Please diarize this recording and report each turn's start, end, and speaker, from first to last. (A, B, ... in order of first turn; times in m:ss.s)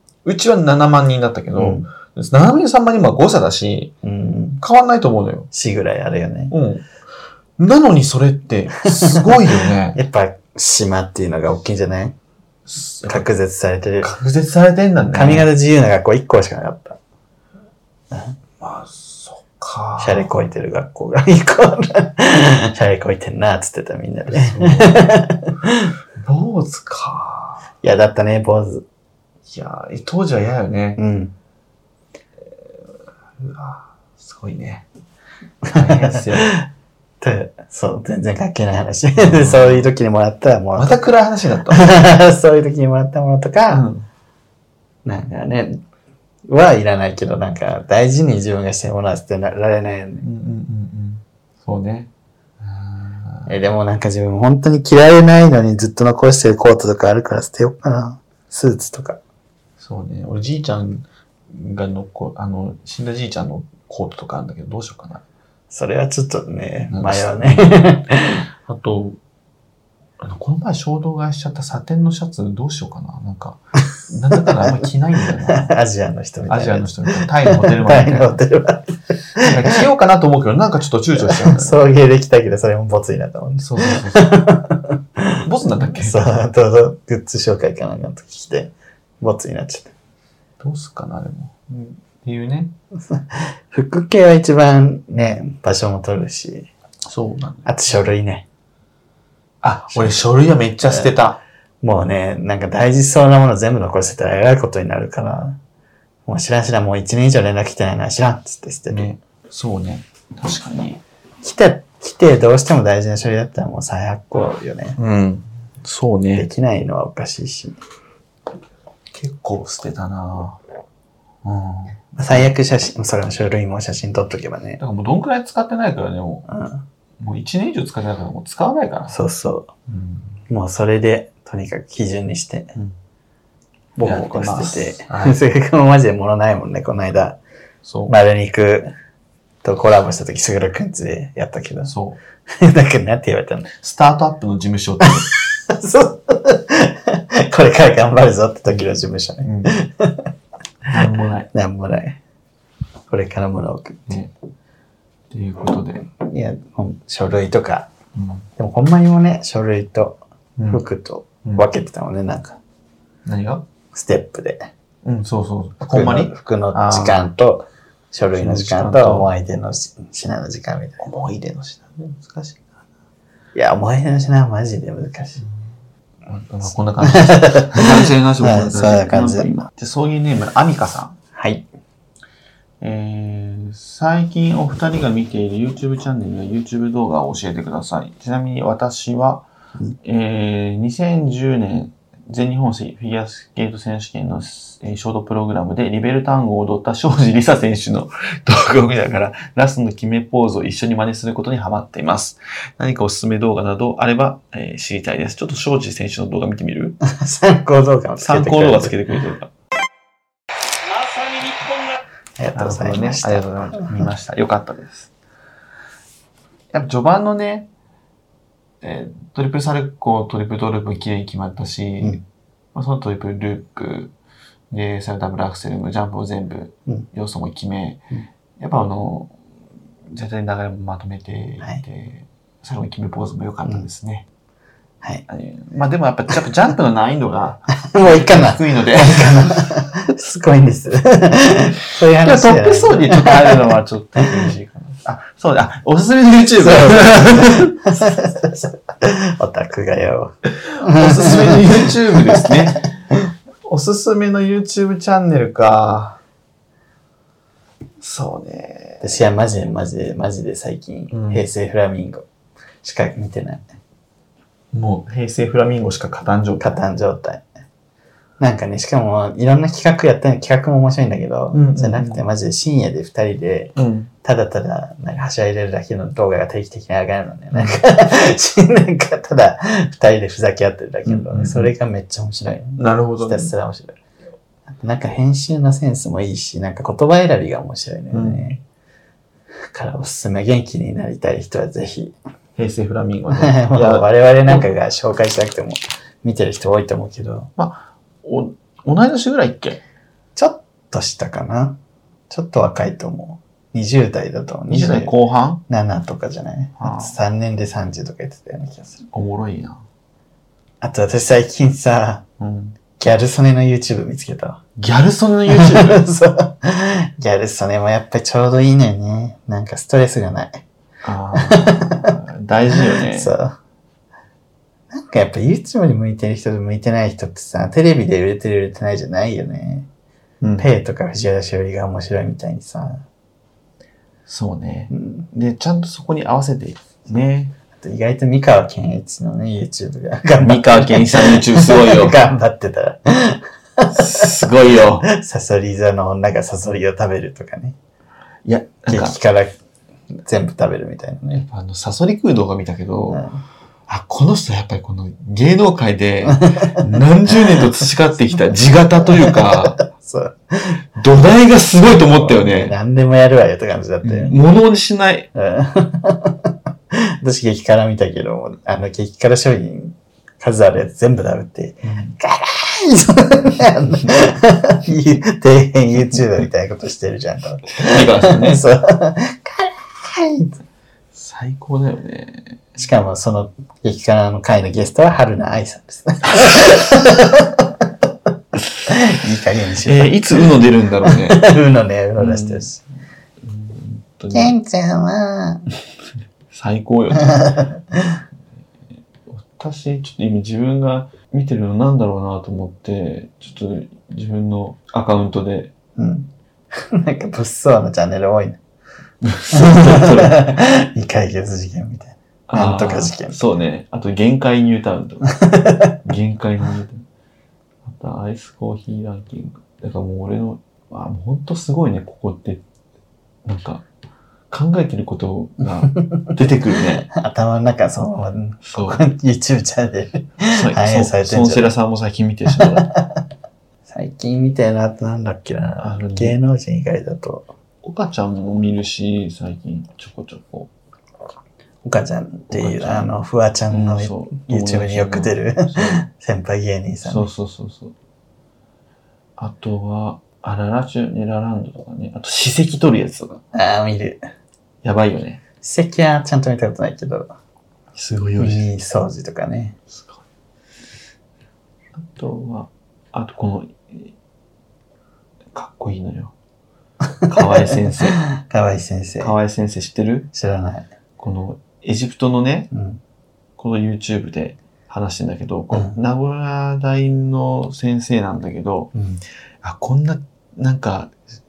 0:00.2-0:03.9 A
0:01.6-0:01.8 B
0:04.0-0:04.6 B
0:04.6-0:05.5 A
0:05.5-0:06.5 B
0:06.5-0:06.8 A
0:07.6-0:10.0 A
0:09.0-0:12.1 B
0:12.7-0:13.3 A
0:13.0-0:14.1 B
0:14.0-0:15.5 A
0:15.1-0:17.0 B
0:18.1-0:18.4 B
0:18.6-0:20.3 A
0:20.0-0:25.9 B
0:24.3-0:25.2 A
0:26.2-0:27.6 A
0:27.8-0:28.8 B
0:29.5-0:31.0 A
0:31.0-0:31.3 B
0:33.4-0:34.8 A
0:35.6-0:36.7 B
0:35.7-0:36.6 A
0:37.2-0:41.0 B
0:39.2-0:39.9 A
0:40.8-0:41.9 A
0:41.7-0:43.8 B
0:43.7-0:44.0 A
0:45.0-0:45.8 B
0:46.5-0:50.2 B
0:50.2-0:53.5 A
0:53.5-0:59.2 B
0:59.8-1:05.2 A
1:05.7-1:08.4 B
1:06.9-1:07.8 A
1:08.6-1:09.2 A
1:10.2-1:15.7 A
1:14.4-1:14.8 B
1:15.5-1:19.8 B
1:16.5-1:18.4 A
1:19.4-1:21.8 A
1:21.2-1:29.9 B
1:23.6-1:24.4 A
1:25.4-1:26.3 A
1:30.6-1:32.7 A
1:33.1-1:36.7 B
1:37.0-1:37.7 A
1:37.6-1:38.4 B
1:39.6-1:41.4 A
1:39.9-1:40.3 B
1:41.8-1:45.6 B
1:46.2-1:49.1 B
1:48.9-1:51.0 A
1:51.4-1:55.0 B
1:55.0-1:56.5 A
1:56.4-1:57.8 B
1:59.1-2:00.6 A
2:01.4-2:02.5 A
2:02.2-2:04.8 B
2:04.8-2:06.5 A
2:06.5-2:06.8 B
2:07.2-2:09.2 A
2:09.1-2:09.7 B
2:09.9-2:10.4 A
2:10.5-2:12.7 B
2:14.0-2:17.4 B
2:14.0-2:15.4 A
2:17.8-2:18.1 A
2:18.1-2:18.9 B
2:19.6-2:21.9 B
2:21.8-2:22.2 A
2:22.5-2:23.7 B
2:23.7-2:25.6 A
2:25.0-2:30.3 B
2:29.4-2:29.8 A
2:30.8-2:31.5 A
2:31.5-2:32.2 B
2:33.1-2:34.2 B
2:35.3-2:36.1 A
2:36.1-2:37.9 B
2:38.1-2:38.5 A
2:38.6-2:42.6 B
2:40.6-2:40.8 A
2:43.2-2:43.6 A
2:43.9-2:44.7 B
2:45.0-2:47.3 A
2:45.9-2:51.1 B
2:48.3-2:49.3 A
2:51.0-2:52.6 A
2:53.5-2:55.4 B
2:56.3-3:01.2 A
2:57.0-2:59.6 B
3:01.3-3:01.7 B
3:02.8-3:09.5 A
3:10.0-3:27.0 A
3:27.0-3:28.9 B
3:28.2-3:29.5 A
3:32.4-3:34.1 B
3:32.5-3:35.1 A
3:36.7-3:37.7 A
3:38.8-3:42.2 A
3:42.7-3:44.1 A
3:44.7-3:48.0 A
3:48.6-3:49.3 A
3:50.1-3:54.2 A
3:55.3-3:59.7 A
3:57.9-4:04.4 B
4:02.2-4:08.1 A
4:06.6-4:12.7 B
4:10.6-4:12.9 A
4:13.6-4:16.2 A
4:18.0-4:19.2 A
4:19.0-4:22.2 B
4:21.1-4:21.4 A
4:22.8-4:23.7 B
4:24.7-4:26.7 A
4:26.6-4:27.4 B
4:28.4-4:33.7 B
4:31.5-4:32.2 A
4:33.8-4:34.1 A
4:34.2-4:44.0 B
4:37.5-4:37.8 A
4:41.0-4:41.7 A
4:42.8-4:43.5 A
4:44.7-4:48.6 B
4:48.1-4:48.6 A
4:49.7-4:52.1 B
4:52.6-4:54.6 A
4:53.3-4:57.5 B
4:57.6-4:59.8 A
5:00.4-5:01.8 B
5:02.3-5:05.1 B
5:04.7-5:05.6 A
5:05.7-5:09.0 B
5:06.8-5:07.2 A
5:09.1-5:09.8 A
5:10.8-5:12.2 B
5:12.4-5:12.8 A
5:13.0-5:14.6 B
5:14.8-5:16.0 A
5:15.5-5:20.6 B
5:21.0-5:23.3 A
5:21.3-5:22.1 B
5:22.7-5:23.6 B
5:24.9-5:29.9 B
5:30.4-5:30.7 A
5:30.6-5:33.0 B
5:34.3-5:37.5 A
5:34.9-5:35.2 B
5:37.7-5:47.8 B
5:40.4-5:42.2 A
5:43.9-5:45.1 A
5:48.4-5:49.2 A
5:48.9-5:49.5 B
5:50.2-5:51.4 B
5:51.3-5:53.3 A
5:53.1-5:53.4 B
5:53.9-5:59.8 A
5:56.2-5:57.6 B
5:59.0-6:00.8 B
6:01.0-6:02.8 A
6:01.9-6:04.4 B
6:04.0-6:05.3 A
6:05.3-6:20.6 B
6:11.8-6:12.1 A
6:17.7-6:18.6 A
6:21.1-6:22.6 A
6:22.8-6:27.8 B
6:28.9-6:30.2 B
6:29.8-6:31.5 A
6:31.0-6:32.8 B
6:32.2-6:32.7 A
6:33.4-6:34.5 A
6:34.3-6:35.6 B
6:36.5-6:37.6 A
6:37.2-6:38.2 B
6:39.3-6:45.7 A
6:46.0-6:48.6 B
6:49.2-6:50.5 A
6:49.5-6:53.4 B
6:52.5-6:55.4 A
6:55.3-6:56.0 B
6:56.0-6:57.0 A
6:57.8-7:02.6 A
7:03.4-7:03.8 A
7:04.5-7:07.1 A
7:05.9-7:11.7 B
7:08.6-7:09.0 A
7:10.5-7:12.9 A
7:12.5-7:13.2 B
7:13.9-7:17.5 B
7:15.8-7:16.4 A
7:17.8-7:20.7 A
7:21.8-7:27.3 B
7:22.5-7:23.1 A
7:23.7-7:26.0 A
7:27.0-7:27.9 A
7:29.4-7:33.4 A
7:33.5-7:34.2 B
7:34.8-7:35.4 A
7:35.6-7:37.3 B
7:37.9-7:38.7 A
7:38.4-7:39.8 B
7:39.9-7:40.2 A
7:42.0-7:44.1 A
7:45.5-7:46.3 A
7:47.2-7:49.3 B
7:47.2-7:48.2 A
7:49.2-7:50.3 A
7:50.3-7:50.9 B
7:51.2-7:52.7 A
7:52.7-7:53.0 B
7:53.6-7:58.9 A
7:58.9-7:59.2 B
7:59.6-8:01.1 A